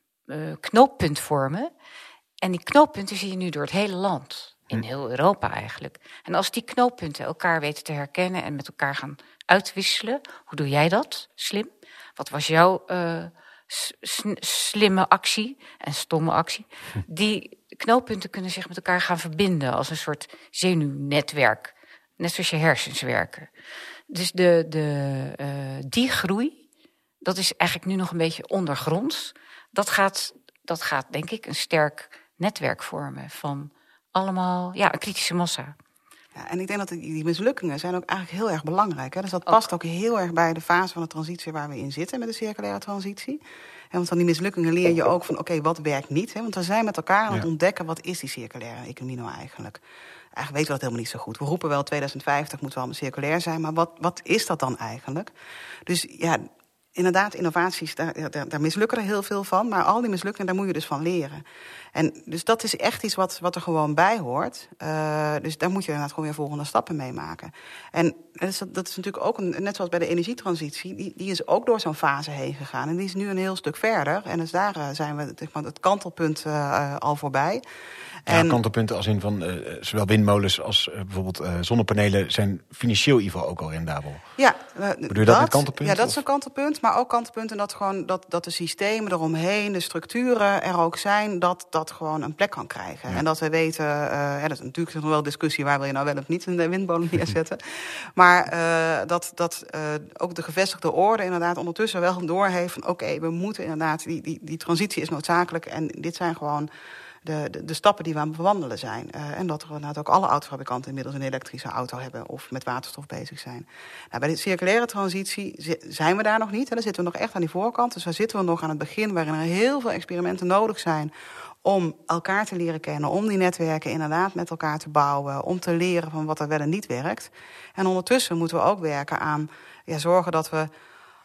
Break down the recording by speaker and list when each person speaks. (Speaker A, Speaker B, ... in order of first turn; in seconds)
Speaker A: 0.3-1.7, 2.4-23.5, 24.1-26.6, 27.2-35.8
Speaker B: 36.4-43.4, 43.9-49.8, 50.4-55.3, 55.9-61.4, 62.0-77.6, 78.3-78.6, 84.4-106.7, 107.2-121.1, 121.6-130.7
Speaker C: 78.3-84.2, 85.1-86.2